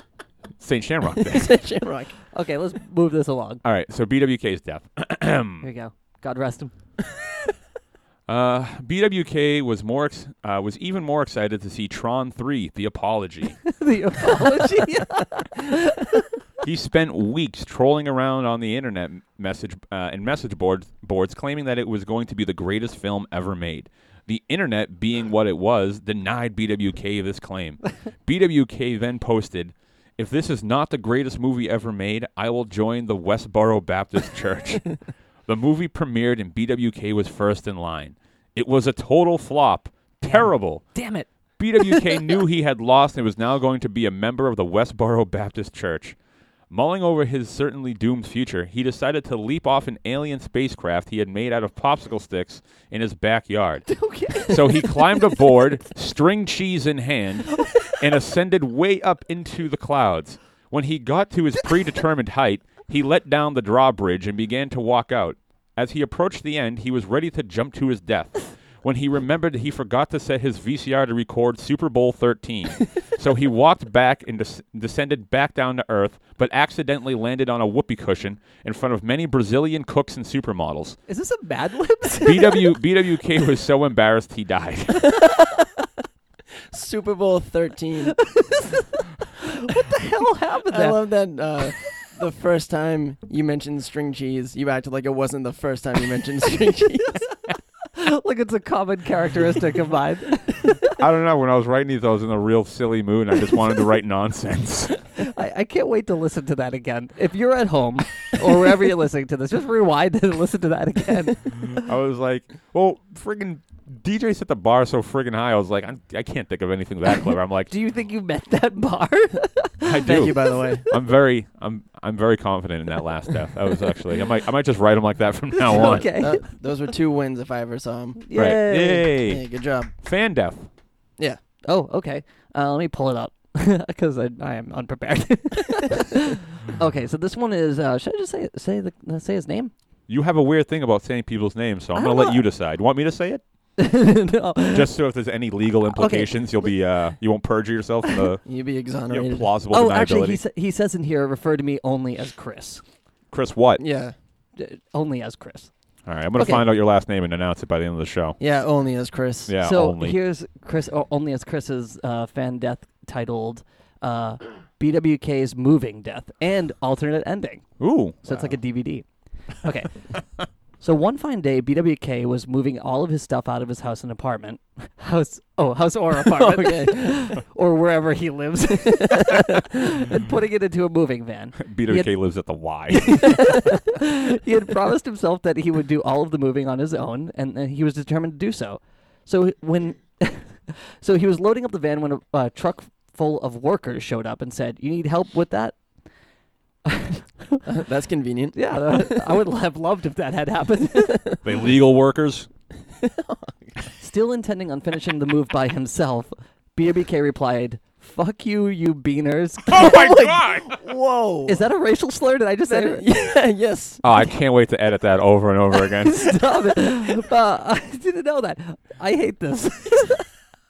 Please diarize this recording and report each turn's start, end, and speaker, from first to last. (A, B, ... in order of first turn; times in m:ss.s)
0:00.6-0:01.5 A
0:01.2-0:02.1 B
0:02.3-0:03.6 C
0:03.6-0:05.6 A
0:05.6-0:06.7 C
0:08.3-0:13.7 A
0:13.6-0:16.3 C
0:16.6-0:40.9 A
0:40.3-0:42.4 C
0:41.6-0:46.2 A
0:46.7-1:21.0 A
0:53.9-0:55.5 C
0:57.6-0:58.0 C
1:21.1-1:22.7 C
1:22.2-1:25.1 A
1:26.7-1:28.2 B
1:28.1-1:31.0 C
1:30.7-1:37.2 B
1:37.9-1:40.9 C
1:40.9-1:45.0 A
1:45.2-1:51.8 C
1:51.7-1:57.7 A
1:57.7-2:00.4 C
1:59.8-2:06.1 A
2:00.0-2:00.8 B
2:05.7-2:06.4 C
2:05.7-2:08.2 B
2:08.2-2:09.1 C
2:08.3-2:09.4 A
2:09.2-2:09.9 B
2:10.0-2:10.7 A
2:11.6-2:19.7 C
2:20.1-2:23.4 A
2:21.9-2:22.4 C
2:23.8-2:24.9 C
2:24.7-2:28.4 A
2:25.9-2:26.4 C
2:28.4-2:29.5 B
2:29.1-2:30.4 A
2:29.7-2:32.8 C
2:33.3-2:33.8 A
2:33.8-2:34.2 B
2:34.6-2:35.7 C
2:36.0-2:38.4 A
2:36.4-2:36.6 C
2:38.4-2:39.5 B
2:39.5-2:40.2 A
2:39.6-2:47.7 C
2:47.8-2:48.5 A
2:48.2-2:49.0 C
2:49.6-2:49.9 C
2:50.8-3:02.1 C
2:56.2-2:57.3 B
3:01.6-3:03.7 A
3:02.9-3:15.8 C
3:16.8-3:17.6 C
3:17.6-3:19.4 B
3:18.5-3:21.4 C
3:21.0-3:21.4 B
3:21.4-3:22.5 A
3:23.0-3:23.7 B
3:24.0-3:30.4 C
3:29.7-3:30.8 A
3:30.6-3:31.6 B
3:31.4-3:33.0 C
3:32.7-3:34.0 B
3:34.0-3:36.3 A
3:36.0-3:40.3 C